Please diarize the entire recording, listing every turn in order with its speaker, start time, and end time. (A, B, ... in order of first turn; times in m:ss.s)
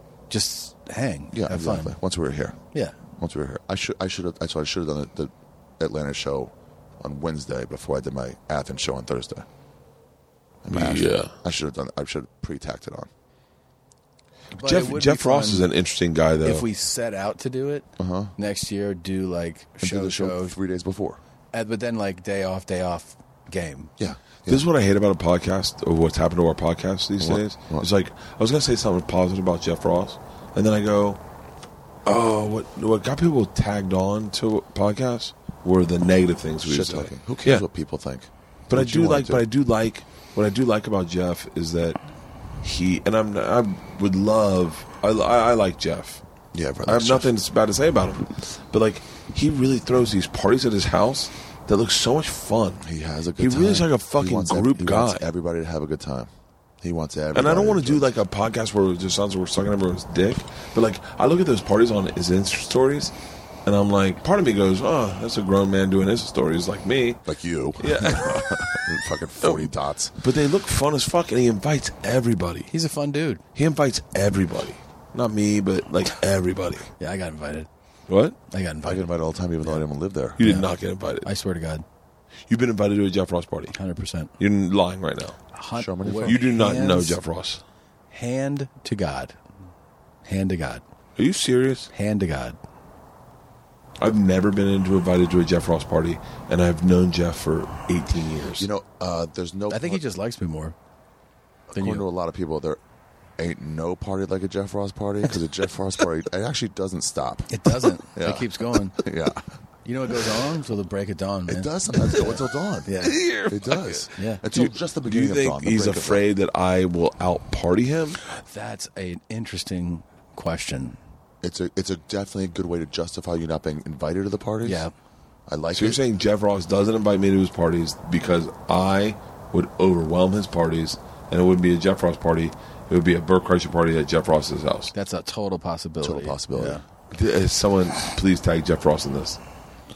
0:00.3-0:02.0 A
0:01.3-0:02.6 B
0:03.2-0:09.5 B
0:10.6-0:13.1 B
0:10.7-0:11.3 C
0:14.5-0:15.7 A
0:14.6-0:16.6 C
0:16.4-0:20.6 A
0:18.0-0:18.3 B
0:19.8-0:21.2 B
0:21.5-0:23.9 A
0:24.0-0:24.6 B
0:24.5-0:31.2 C
0:27.2-0:27.9 B
0:32.0-0:37.6 C
0:36.6-0:39.4 B
0:38.7-0:42.0 C
0:42.6-0:46.2 C
0:46.5-0:47.3 B
0:46.8-0:52.8 C
0:52.8-0:56.3 B
0:53.4-0:55.2 C
0:56.8-0:58.1 B
0:57.3-1:03.1 C
1:03.6-1:07.2 C
1:07.2-1:10.2 B
1:07.8-1:08.8 C
1:09.4-1:12.7 C
1:12.7-1:13.4 A
1:13.6-1:16.9 C
1:17.0-1:17.7 A
1:18.1-1:18.4 C
1:18.5-1:19.0 A
1:18.8-1:20.4 B
1:20.4-1:21.3 C
1:20.4-1:20.7 A
1:21.2-1:21.8 A
1:22.5-1:23.7 C
1:23.7-1:24.3 A
1:24.4-1:25.4 C
1:25.5-1:27.2 A
1:25.7-1:26.4 B
1:26.2-1:27.6 C
1:28.1-1:29.4 A
1:30.2-1:30.8 A
1:31.2-1:31.9 C
1:31.9-1:32.6 A
1:34.0-1:38.7 C
1:38.6-1:40.0 B
1:39.7-1:40.7 A
1:41.7-1:42.8 B
1:41.7-1:42.0 A
1:43.4-1:49.5 B
1:47.5-1:49.0 A
1:49.8-1:53.2 A
1:51.5-1:53.0 B
1:53.0-1:58.2 C
1:53.5-1:56.3 B
1:54.2-1:54.4 A
1:58.3-2:01.0 A
2:01.4-2:04.8 B
2:04.6-2:04.9 A
2:05.5-2:06.0 B
2:05.7-2:14.9 C
2:14.9-2:16.8 A
2:16.0-2:16.8 B
2:17.1-2:19.4 C